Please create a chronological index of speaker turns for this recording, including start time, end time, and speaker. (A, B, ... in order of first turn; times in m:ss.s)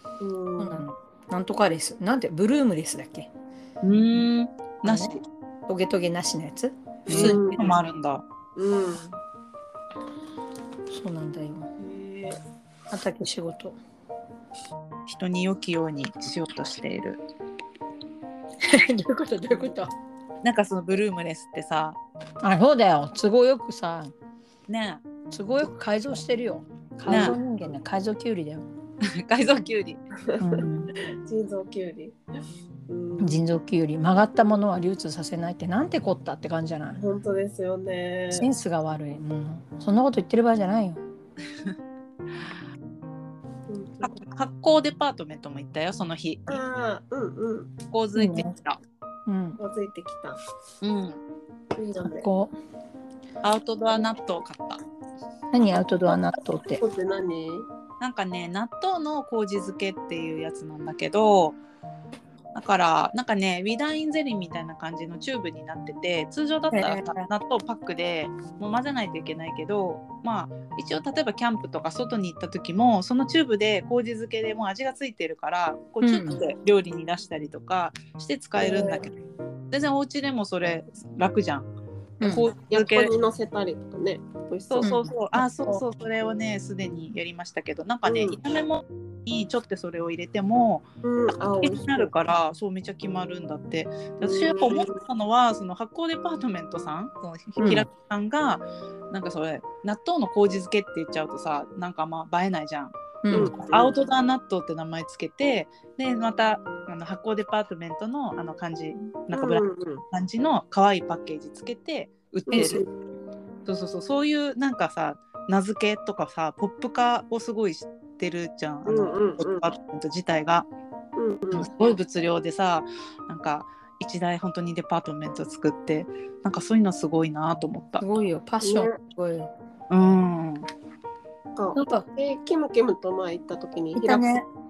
0:00.2-0:00.8 A
0:00.6-0:03.3 B
0:03.8-0:05.2 C
0:04.8-0:07.6 B
0:07.1-0:08.2 C
0:07.1-0:07.7 A
0:08.6-0:09.2 A
0:10.9-0:11.7 B
0:11.8-0:12.4 A
0:12.9-0:13.8 B
0:15.1-0:17.2 C
0:18.6-0:19.9 B
0:20.4-0:22.0 C
0:22.4-0:24.1 B
0:24.7-0:25.0 C
0:25.3-0:28.6 B
0:27.1-0:27.4 C
0:27.1-0:27.4 A
0:29.0-0:30.0 C
0:30.3-0:32.2 A
0:30.4-0:30.9 B
0:32.9-0:33.4 A
0:33.2-0:37.0 B
0:37.0-0:38.5 A
0:38.3-0:41.0 B
0:43.7-0:44.2 A
0:44.0-0:46.6 C
0:46.5-0:47.8 A
0:47.9-0:48.8 C
0:48.2-0:48.5 B
0:49.3-0:49.6 B
0:49.6-0:50.4 A
0:50.8-0:51.2 C
0:51.8-0:52.3 A
0:52.0-0:52.5 B
0:53.4-0:54.8 C
0:55.5-0:56.8 B
0:56.8-0:57.7 A
0:58.0-1:01.6 C
1:02.5-1:19.1 C
1:06.7-1:07.2 B
1:16.0-1:16.4 B
1:18.6-1:19.1 A
1:19.7-1:21.7 C
1:22.2-1:22.5 B
1:22.2-1:23.1 C
1:22.6-1:25.0 A
1:24.7-1:30.8 C
1:24.8-1:25.8 B
1:28.1-1:28.4 A
1:31.0-1:32.1 A
1:31.6-1:52.8 C
1:34.2-1:35.0 A
1:37.6-1:37.9 B
1:43.2-1:43.6 B
1:43.3-1:44.0 A
1:49.3-1:50.0 A
1:52.5-1:52.9 A
1:53.7-2:00.7 C
1:58.8-1:59.7 A
2:01.2-2:01.7 A
2:01.5-2:08.0 C
2:08.0-2:09.5 B
2:08.6-2:09.0 A
2:09.9-2:10.7 C
2:11.6-2:14.4 A
2:11.7-2:12.1 B
2:14.0-2:14.5 B